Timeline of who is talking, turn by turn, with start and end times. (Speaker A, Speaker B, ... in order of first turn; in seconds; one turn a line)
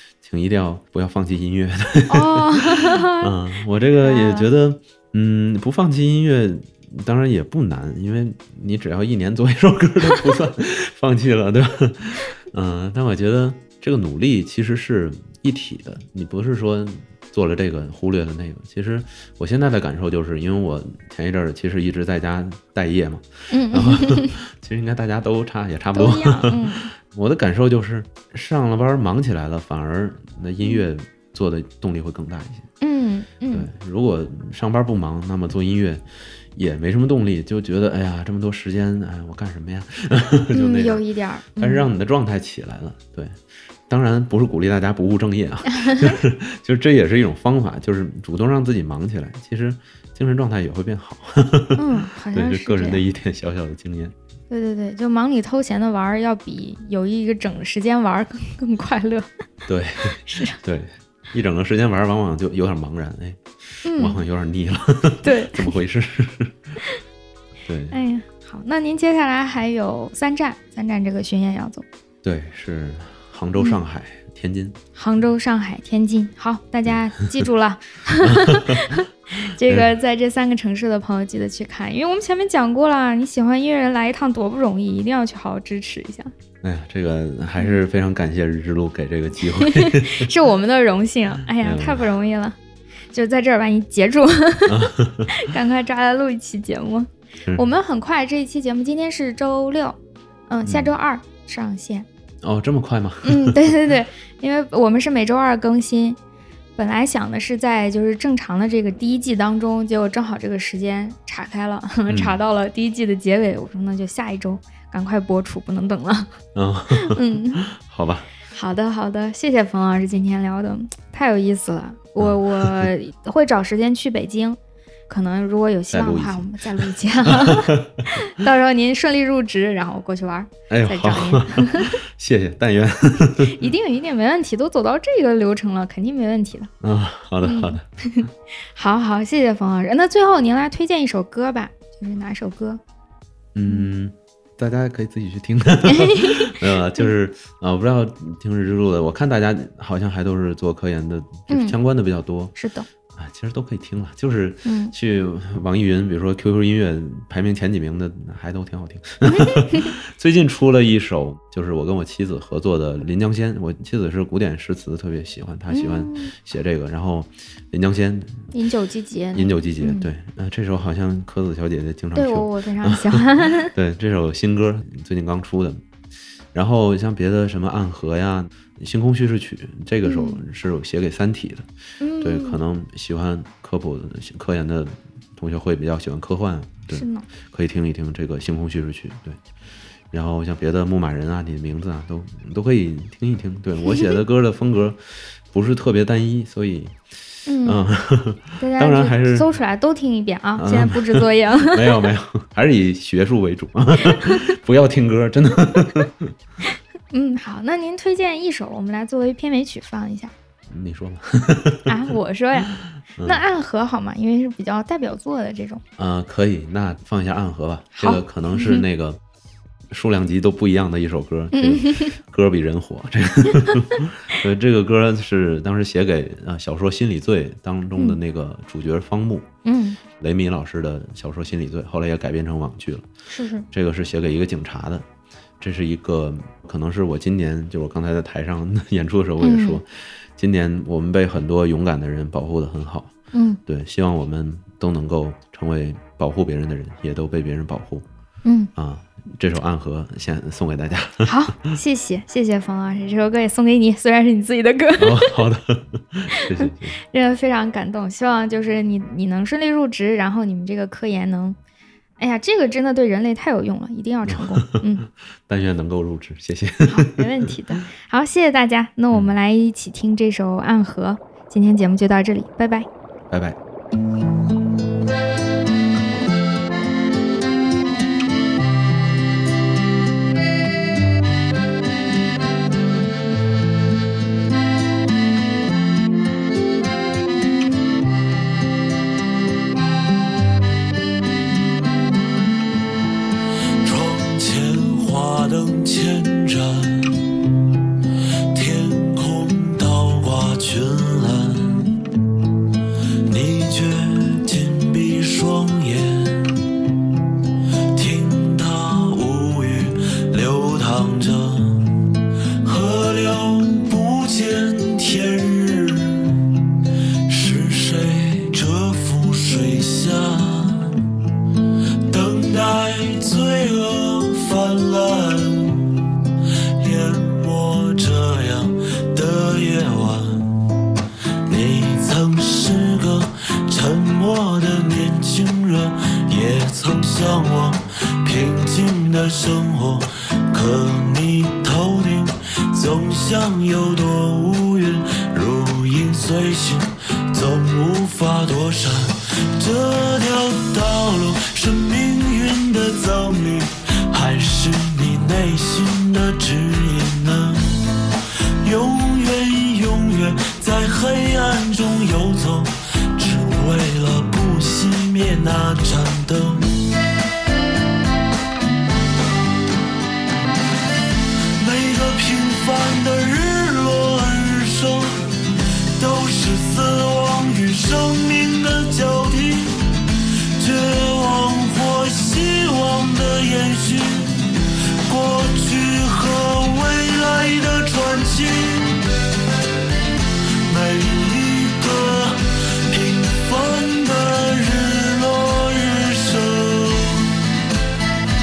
Speaker A: 0.2-32.7
Speaker B: 2.1-3.3
Speaker B: 4.0-4.5
Speaker B: 23.5-24.3
Speaker B: 25.9-26.9
Speaker B: 32.8-33.7
Speaker A: 33.5-41.0
Speaker B: 40.5-41.9
Speaker A: 41.6-54.1
Speaker B: 45.7-46.1
Speaker B: 51.7-53.0
Speaker B: 54.5-59.3
Speaker A: 59.6-66.6
Speaker B: 60.2-60.6
Speaker B: 63.9-64.2
Speaker B: 65.2-65.7
Speaker A: 67.7-68.0
Speaker B: 67.9-71.8
Speaker A: 72.2-74.8
Speaker B: 75.0-86.3
Speaker A: 76.9-77.4
Speaker A: 78.2-78.8
Speaker A: 79.6-79.9
Speaker A: 86.6-90.3
Speaker B: 89.5-92.6
Speaker A: 91.6-92.0
Speaker B: 93.1-102.1
Speaker A: 94.7-95.3
Speaker A: 100.7-100.9
Speaker A: 102.4-103.9
Speaker B: 103.2-106.2
Speaker B: 106.8-116.3
Speaker A: 112.1-112.4
Speaker A: 116.5-118.3
Speaker B: 116.9-117.6
Speaker B: 118.5-124.6
Speaker A: 122.2-122.9
Speaker B: 125.1-132.0
Speaker A: 125.9-128.2
Speaker A: 130.7-133.6
Speaker B: 133.3-136.7
Speaker A: 136.8-137.8
Speaker B: 137.4-142.8
Speaker A: 143.6-152.6
Speaker B: 145.8-147.1
Speaker B: 151.5-151.8
Speaker B: 152.6-152.9
Speaker A: 153.1-168.5
Speaker B: 154.6-154.9
Speaker B: 159.2-159.9
Speaker B: 165.7-166.3
Speaker B: 168.5-170.1
Speaker A: 169.3-175.8
Speaker B: 172.1-173.7
Speaker A: 176.5-181.7
Speaker B: 180.1-180.4
Speaker B: 182.0-182.6
Speaker A: 182.2-189.4
Speaker B: 186.9-187.3
Speaker A: 190.1-197.0
Speaker B: 193.8-194.1
Speaker B: 197.5-197.8
Speaker A: 197.6-199.5
Speaker B: 198.6-202.1
Speaker A: 200.6-206.3
Speaker B: 204.0-204.4
Speaker B: 207.1-210.3
Speaker A: 210.7-211.9
Speaker B: 211.8-215.8
Speaker A: 212.7-213.4
Speaker A: 216.0-219.2
Speaker B: 217.9-218.8
Speaker A: 219.9-229.5
Speaker B: 221.5-222.1
Speaker B: 229.6-230.0
Speaker A: 230.2-233.1
Speaker B: 233.3-233.7
Speaker A: 233.7-235.1
Speaker A: 235.6-243.1
Speaker B: 239.4-239.8
Speaker B: 243.3-243.6
Speaker A: 243.7-248.1
Speaker B: 248.4-248.7
Speaker A: 248.8-251.3
Speaker B: 251.2-255.4
Speaker A: 255.0-257.0
Speaker B: 256.3-261.6
Speaker B: 262.2-265.1
Speaker A: 264.3-267.5
Speaker B: 266.9-272.9
Speaker A: 273.3-273.6
Speaker C: 293.8-297.5
Speaker C: 298.5-302.1
Speaker C: 303.2-306.7
Speaker C: 307.9-321.1
Speaker C: 322.1-330.7
Speaker C: 331.4-366.8
Speaker C: 371.6-389.1
Speaker C: 390.6-397.4